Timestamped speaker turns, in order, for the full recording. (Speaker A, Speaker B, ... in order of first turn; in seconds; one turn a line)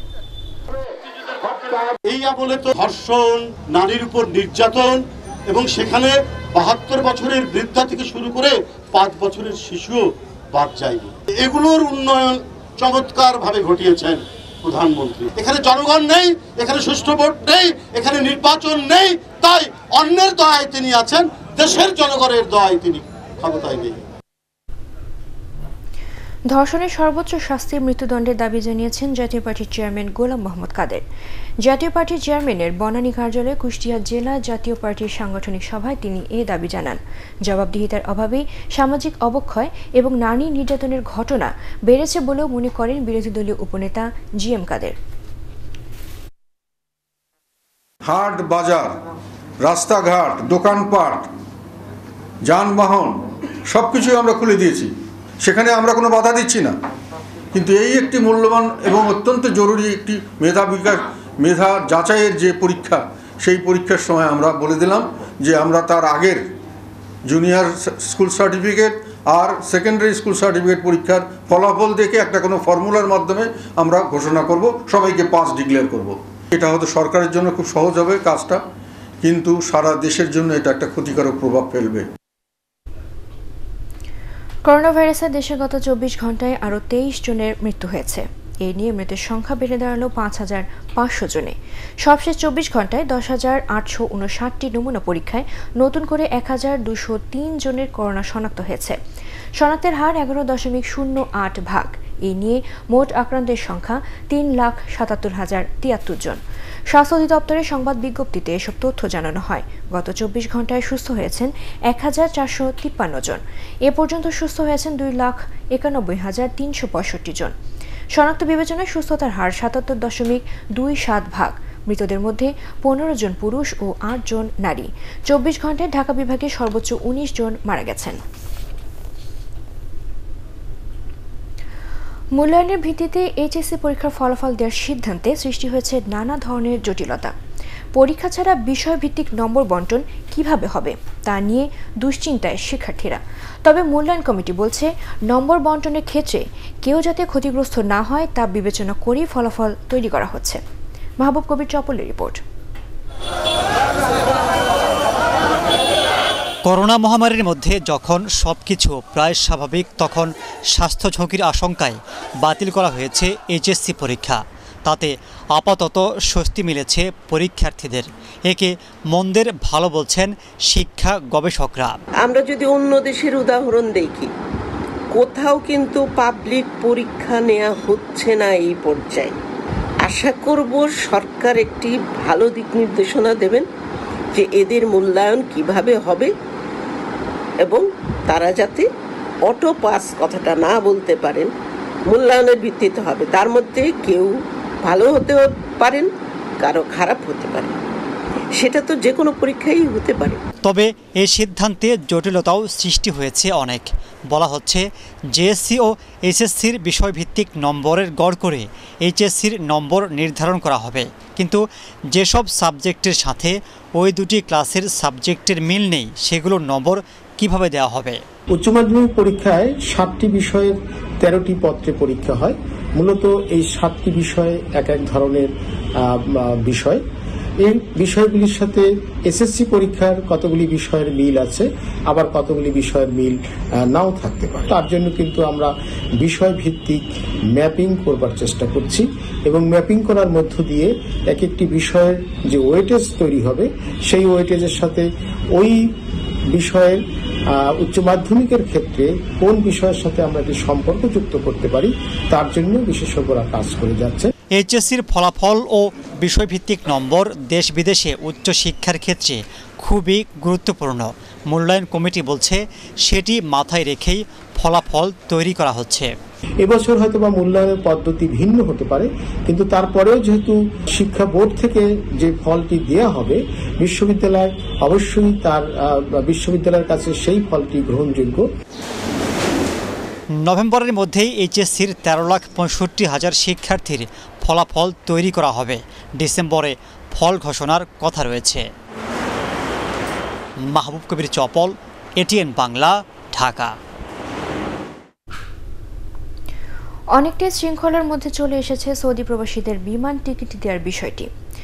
Speaker A: 1.5-24.0
Speaker B: 26.5-31.0
Speaker B: 31.6-45.0
Speaker C: 48.0-48.9
Speaker C: 49.6-51.3
Speaker C: 52.5-53.2
Speaker C: 53.7-54.9
Speaker C: 55.4-56.7
Speaker C: 57.5-66.4
Speaker C: 67.3-78.6
Speaker C: 79.2-82.0
Speaker B: 84.7-99.0
Speaker B: 99.6-117.5
Speaker B: 118.1-128.2
Speaker B: 132.3-137.3
Speaker B: 137.9-150.6
Speaker B: 151.2-152.4
Speaker D: 156.6-172.0
Speaker E: 172.2-174.3
Speaker E: 175.1-179.3
Speaker E: 180.0-183.7
Speaker E: 184.3-186.3
Speaker E: 187.6-188.8
Speaker E: 189.4-191.5
Speaker E: 192.1-194.3
Speaker E: 194.8-196.1
Speaker E: 196.6-197.7
Speaker E: 198.6-200.4
Speaker D: 200.6-218.2
Speaker F: 218.5-225.5
Speaker F: 226.0-227.0
Speaker F: 227.6-245.9
Speaker F: 246.5-254.3
Speaker D: 254.5-266.1
Speaker F: 266.6-278.5
Speaker D: 280.4-288.7
Speaker D: 290.7-293.8
Speaker B: 297.1-301.3